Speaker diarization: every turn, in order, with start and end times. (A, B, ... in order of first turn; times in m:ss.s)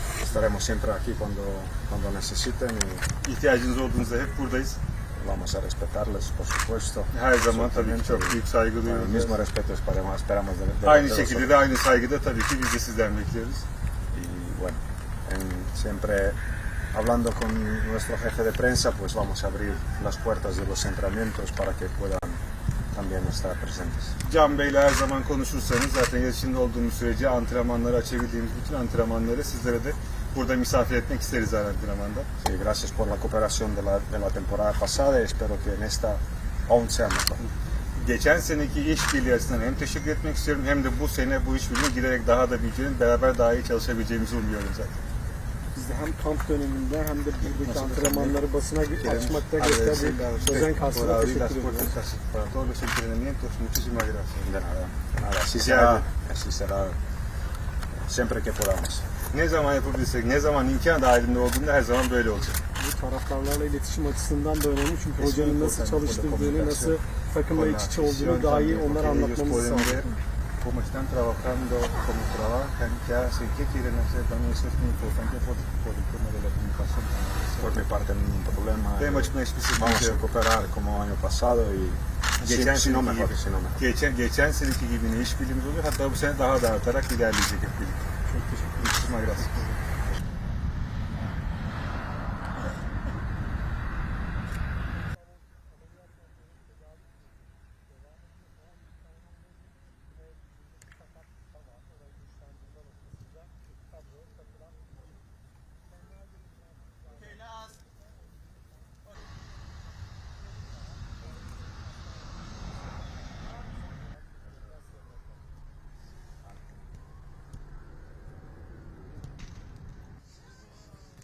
0:00.2-0:03.1 A
0:03.2-0:04.8 B
0:05.1-0:11.6 A
0:07.1-0:09.4 B
0:10.8-0:13.7 B
0:14.1-0:16.4 A
0:16.9-0:24.2 A
0:24.2-0:32.3 B
0:32.4-0:37.4 A
0:38.0-0:45.0 B
0:45.7-0:52.0 C
0:47.4-0:54.5 B
0:54.4-0:57.0 A
0:55.5-0:56.1 B
0:57.9-0:59.1 A
0:59.3-1:02.6 B
1:02.8-1:10.2 C
1:05.2-1:17.8 B
1:17.6-1:23.8 A
1:19.0-1:20.2 B
1:22.4-1:29.8 B